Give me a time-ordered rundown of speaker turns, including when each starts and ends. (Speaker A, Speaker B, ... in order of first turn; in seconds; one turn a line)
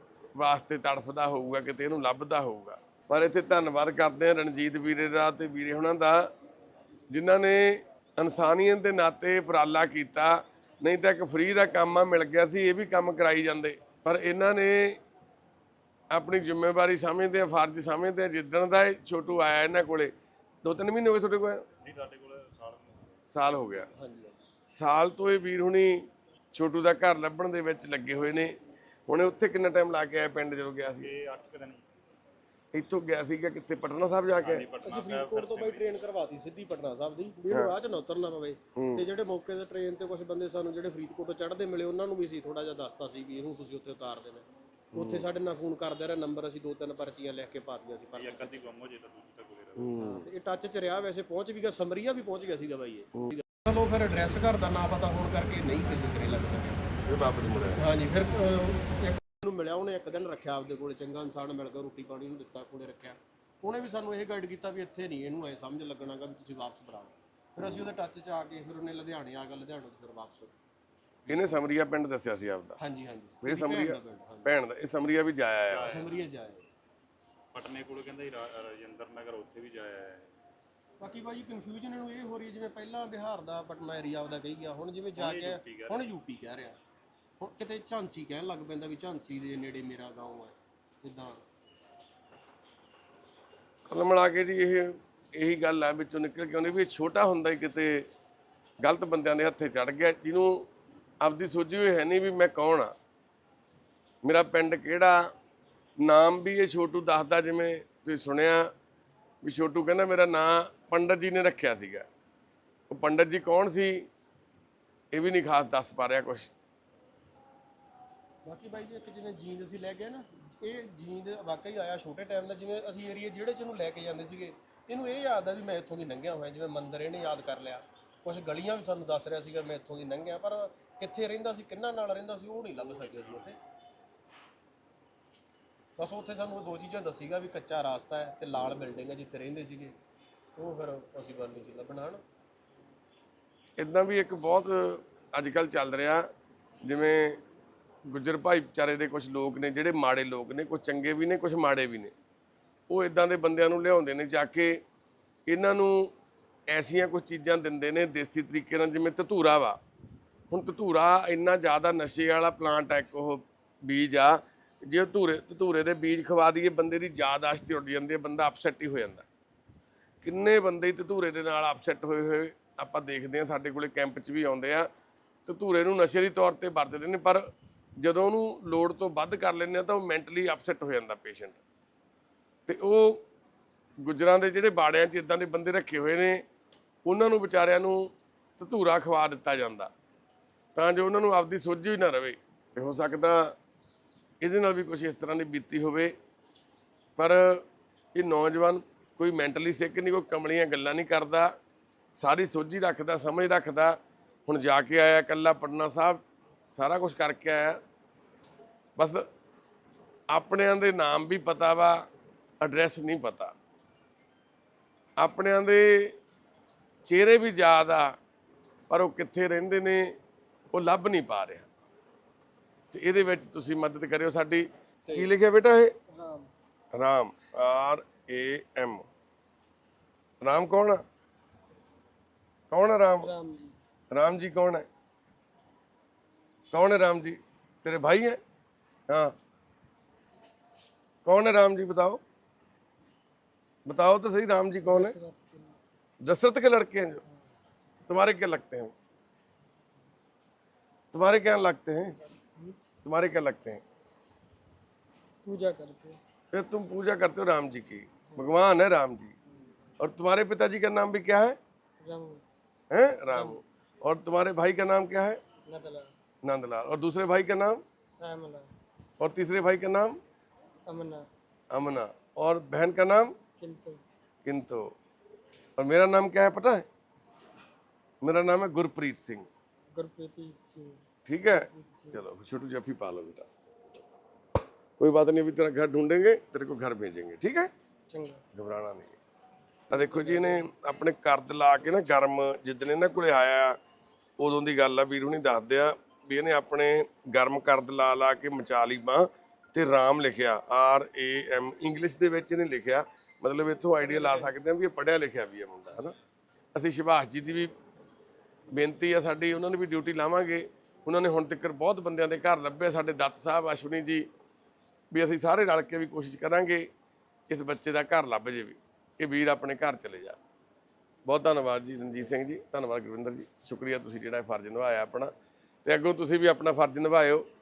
Speaker A: 0.3-6.3
Speaker A: 7.1-15.0
Speaker A: 16.1-21.6
Speaker B: 21.8-23.2
Speaker A: 23.3-23.9
Speaker C: 23.9-24.4
Speaker A: 24.7-28.6
Speaker A: 29.1-31.1
Speaker B: 31.0-31.9
Speaker A: 32.7-34.7
Speaker B: 34.4-36.0
Speaker C: 34.8-48.7
Speaker A: 38.8-39.1
Speaker A: 44.9-45.2
Speaker B: 48.1-50.0
Speaker A: 49.8-50.2
Speaker C: 50.0-56.8
Speaker A: 57.1-57.9
Speaker C: 57.8-70.5
Speaker A: 67.6-67.9
Speaker A: 71.3-72.8
Speaker C: 72.8-74.5
Speaker A: 73.4-76.0
Speaker B: 75.7-76.2
Speaker C: 75.8-76.6
Speaker B: 77.5-80.3
Speaker C: 81.0-86.8
Speaker B: 85.2-86.1
Speaker C: 87.4-91.4
Speaker A: 93.9-98.1
Speaker A: 98.8-100.7
Speaker A: 101.2-102.9
Speaker A: 104.2-105.3
Speaker A: 106.0-108.7
Speaker A: 109.4-112.1
Speaker A: 112.9-114.1
Speaker A: 115.1-116.5
Speaker C: 118.5-133.6
Speaker C: 136.0-139.9
Speaker C: 140.6-142.2
Speaker A: 143.8-146.3
Speaker A: 146.8-147.4
Speaker A: 148.1-152.1
Speaker A: 152.9-154.8
Speaker A: 155.5-156.1
Speaker A: 156.7-159.8
Speaker A: 160.5-169.3
Speaker A: 170.2-174.9
Speaker A: 175.4-177.5
Speaker A: 178.0-181.6
Speaker A: 182.7-183.2
Speaker A: 184.0-186.4
Speaker A: 187.1-189.9
Speaker A: 190.8-193.6
Speaker A: 194.4-196.2
Speaker A: 197.2-201.5
Speaker A: 202.2-206.2
Speaker A: 206.7-207.8
Speaker A: 209.0-209.3
Speaker A: 210.3-212.1
Speaker A: 212.6-213.5
Speaker A: 215.2-216.2
Speaker A: 217.0-218.2
Speaker A: 218.9-220.2
Speaker A: 220.7-221.7
Speaker A: 222.9-225.9
Speaker D: 226.1-226.5
Speaker A: 226.9-229.1
Speaker A: 230.4-231.0
Speaker A: 232.7-233.3
Speaker D: 233.2-233.8
Speaker A: 234.1-234.8
Speaker A: 236.7-238.4
Speaker A: 239.1-239.3
Speaker A: 241.2-242.2
Speaker A: 243.8-245.2
Speaker D: 244.8-245.8
Speaker A: 246.2-247.2
Speaker A: 248.1-248.9
Speaker A: 251.1-252.2
Speaker A: 253.0-253.8
Speaker D: 255.4-256.2
Speaker A: 256.5-259.3
Speaker A: 260.0-261.6
Speaker D: 262.0-262.4
Speaker A: 262.9-265.4
Speaker D: 263.3-263.6
Speaker D: 265.7-266.1
Speaker A: 266.4-267.8
Speaker D: 268.2-268.7
Speaker A: 269.2-270.2
Speaker D: 270.9-271.3
Speaker A: 271.7-273.3
Speaker D: 273.6-274.0
Speaker A: 274.4-274.9
Speaker A: 275.8-276.9
Speaker A: 278.2-279.5
Speaker D: 279.9-282.2
Speaker A: 281.3-283.5
Speaker A: 285.0-287.7
Speaker D: 288.1-288.4
Speaker A: 288.5-289.2
Speaker A: 289.9-293.8
Speaker D: 289.9-290.6
Speaker A: 294.4-306.1
Speaker A: 306.7-307.7
Speaker A: 308.7-314.3
Speaker A: 315.1-316.9
Speaker A: 317.5-320.4
Speaker A: 321.3-325.3
Speaker A: 325.8-327.4